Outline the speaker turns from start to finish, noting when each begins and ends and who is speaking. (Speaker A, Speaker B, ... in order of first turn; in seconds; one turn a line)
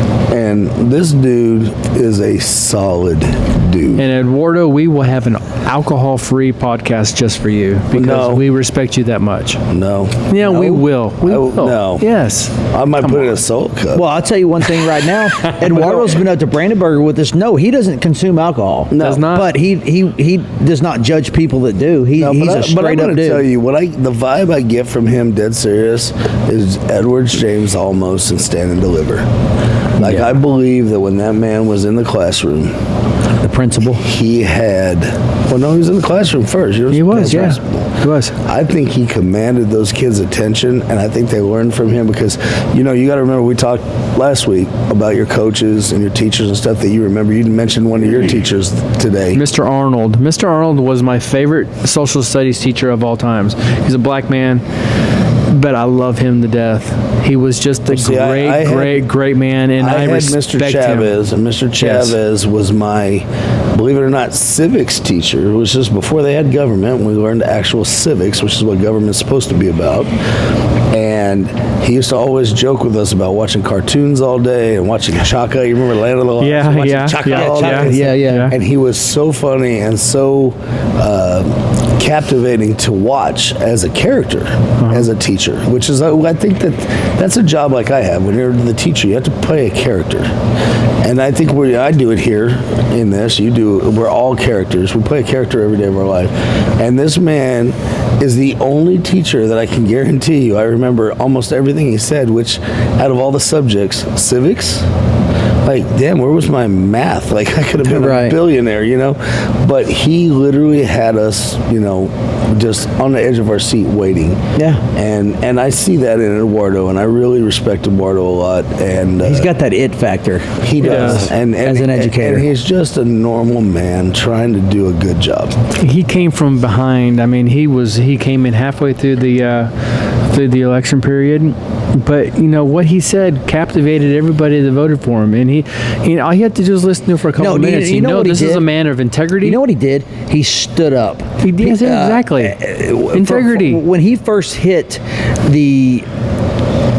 Speaker A: 0.3-4.0
Speaker B: 4.0-9.6
Speaker A: 7.9-8.4
Speaker A: 9.7-12.0
Speaker B: 10.3-13.4
Speaker C: 10.5-10.8
Speaker A: 12.7-14.0
Speaker C: 13.9-23.5
Speaker B: 15.4-16.0
Speaker A: 18.9-19.3
Speaker B: 19.0-19.5
Speaker A: 22.2-29.2
Speaker A: 30.0-32.8
Speaker C: 33.4-34.0
Speaker A: 34.0-49.4
Speaker B: 36.9-38.3
Speaker C: 37.1-37.5
Speaker B: 49.3-54.6
Speaker B: 55.5-61.1
Speaker A: 57.9-59.0
Speaker A: 59.8-70.1
Speaker B: 61.8-62.1
Speaker A: 70.9-90.3
Speaker B: 76.4-78.5
Speaker C: 77.3-78.5
Speaker B: 84.8-85.1
Speaker A: 91.0-104.9
Speaker A: 105.6-114.4
Speaker C: 107.8-108.3
Speaker C: 114.5-114.8
Speaker A: 114.9-119.5
Speaker C: 119.2-122.5
Speaker A: 120.6-125.5
Speaker B: 120.8-121.3
Speaker B: 125.8-129.7
Speaker B: 130.3-139.6
Speaker C: 137.3-138.7
Speaker C: 139.4-146.1
Speaker B: 141.4-143.8